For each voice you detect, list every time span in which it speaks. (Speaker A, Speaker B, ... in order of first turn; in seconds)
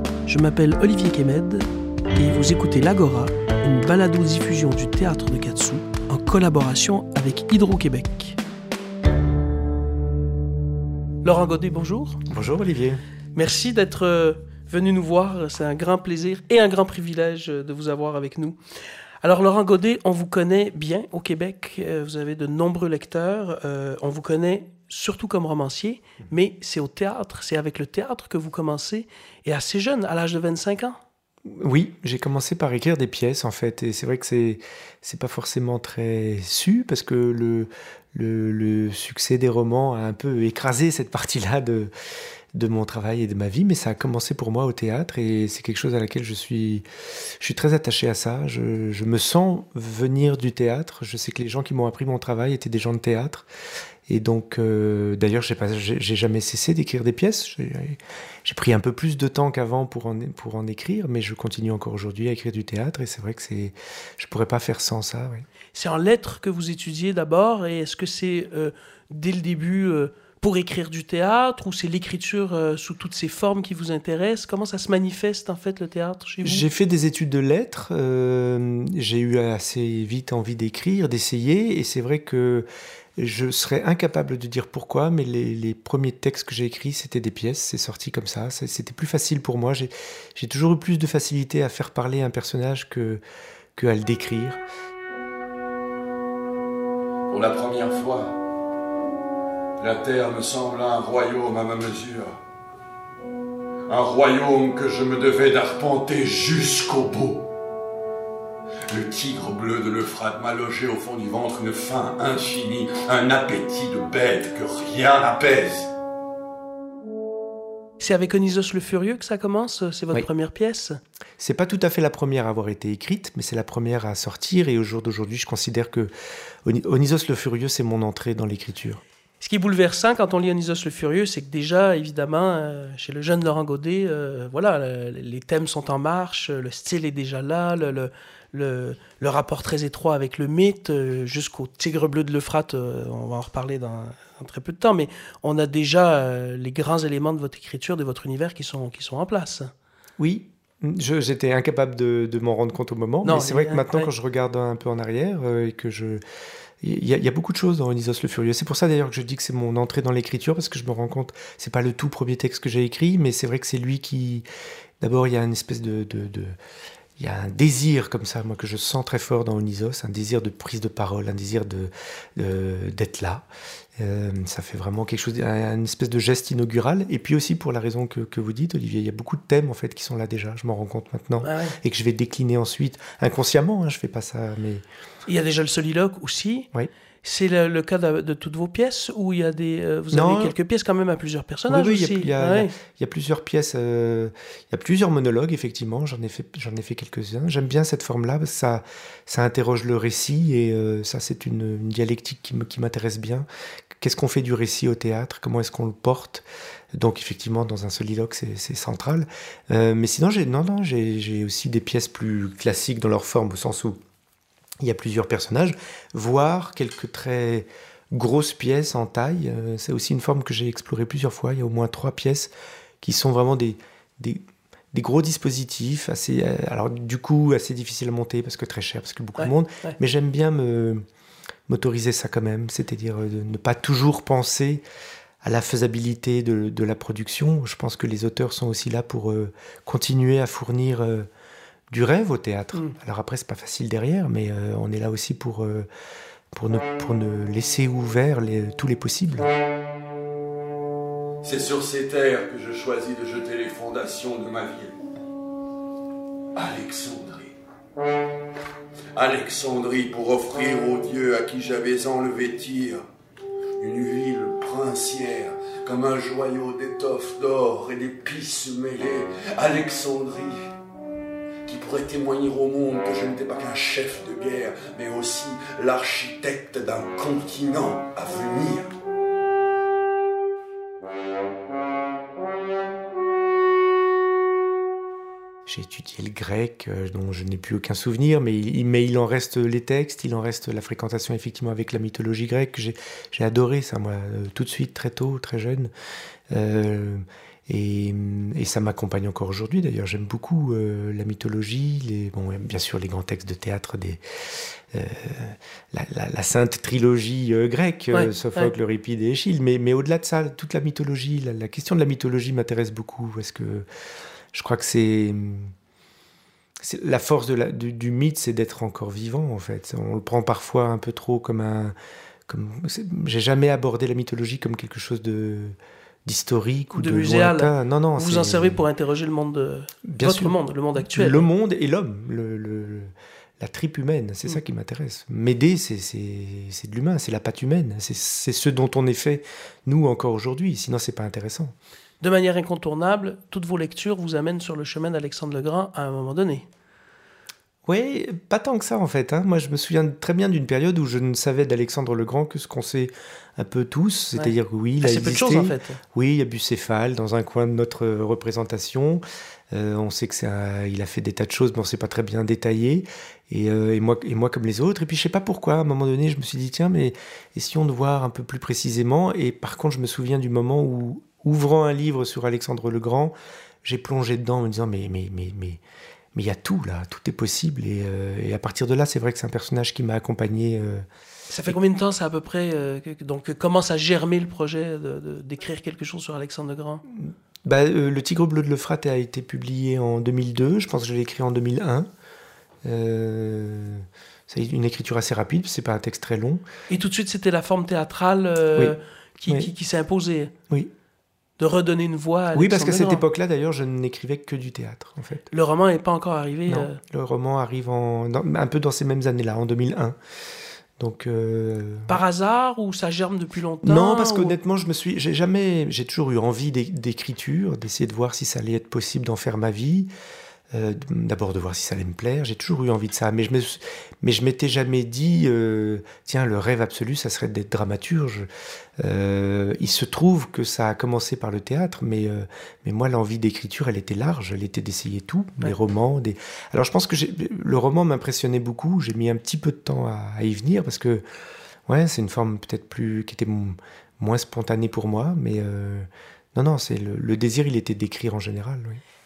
Speaker A: 0.3-8.4, 11.2-12.2, 13.3-18.6, 19.2-31.0, 65.7-76.7, 118.0-121.0, 129.4-149.7, 153.2-154.1, 181.4-181.8, 185.3-186.7, 187.2-192.7, 229.4-230.0, 308.1-308.7, 326.9-331.5, 342.2-346.7, 354.4-356.0, 381.5-387.0, 396.9-400.5, 401.6-403.2, 405.5-407.0, 412.1-414.6
Speaker B: 12.3-13.0, 31.5-41.9, 42.5-46.9, 47.4-53.5, 54.1-65.5, 76.4-82.7, 83.2-93.2, 93.8-94.6, 121.4-126.1, 126.7-129.0, 150.2-156.2, 156.8-164.4, 165.0-166.6, 167.2-173.4, 174.0-184.8, 190.1-190.6, 191.7-203.5, 204.0-214.0, 214.8-224.4, 224.9-231.0, 231.7-234.8, 235.4-241.3, 241.9-245.9, 246.5-249.5, 285.7-295.9, 296.5-304.2, 304.9-313.9, 314.5-315.7, 316.8-321.9, 322.5-328.8, 330.1-330.6, 331.1-341.7, 347.9-375.8, 376.3-381.1, 387.1-392.1, 392.9-396.6, 402.5-405.4, 406.7-410.2, 411.0-412.2, 413.8-420.1, 420.7-428.5, 429.0-441.2, 441.9-449.0
Speaker C: 97.3-98.3, 99.8-102.4, 103.9-107.4, 108.9-115.9, 251.4-255.0, 256.6-257.6, 259.1-263.0, 263.8-270.6, 271.7-278.9